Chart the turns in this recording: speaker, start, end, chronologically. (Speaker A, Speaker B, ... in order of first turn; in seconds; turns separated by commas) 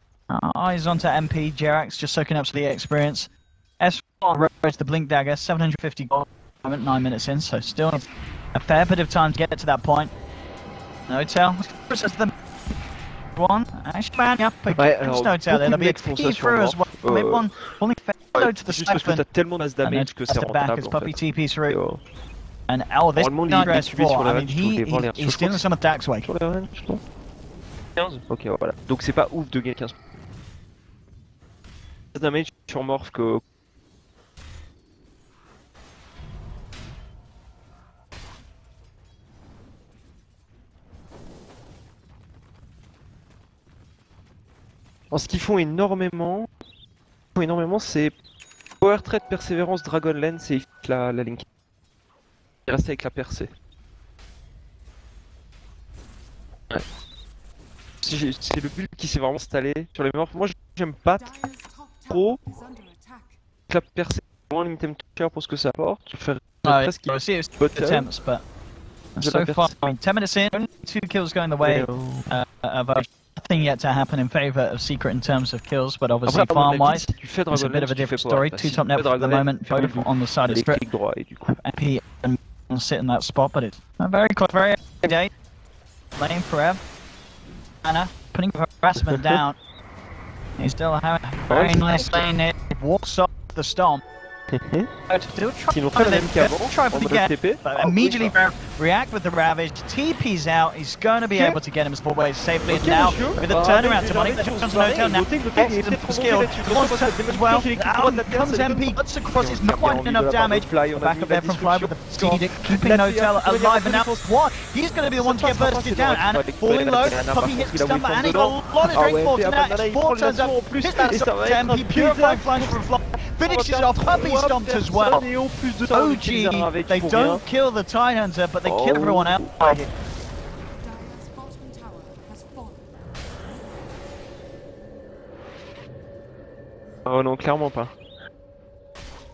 Speaker A: 0.3-10.1, Speaker A: 11.1-12.3, Speaker A: 13.3-19.2, Speaker B: 14.8-17.6, Speaker B: 18.3-21.2, Speaker A: 19.8-21.8, Speaker B: 21.7-22.0, Speaker A: 22.7-26.3, Speaker B: 23.1-25.6, Speaker B: 26.2-27.0, Speaker B: 27.9-29.9, Speaker B: 32.1-33.4, Speaker B: 45.1-46.5, Speaker B: 47.4-48.1, Speaker B: 48.8-51.4, Speaker B: 52.7-53.5, Speaker B: 58.0-61.4, Speaker C: 61.1-63.4, Speaker B: 62.1-62.4, Speaker B: 63.7-68.1, Speaker A: 66.6-68.4, Speaker A: 69.2-80.8, Speaker B: 69.2-69.9, Speaker B: 71.6-72.3, Speaker B: 76.2-81.6, Speaker A: 81.5-85.3, Speaker A: 86.2-86.8, Speaker A: 87.8-89.6, Speaker B: 88.9-89.4, Speaker A: 90.6-94.0, Speaker B: 91.5-92.3, Speaker B: 94.5-94.9, Speaker A: 95.1-125.3, Speaker B: 95.7-98.3, Speaker B: 102.7-114.2, Speaker B: 115.2-122.8, Speaker B: 123.4-127.4, Speaker A: 125.9-129.9, Speaker B: 128.6-129.8, Speaker C: 130.7-132.9, Speaker B: 137.1-137.9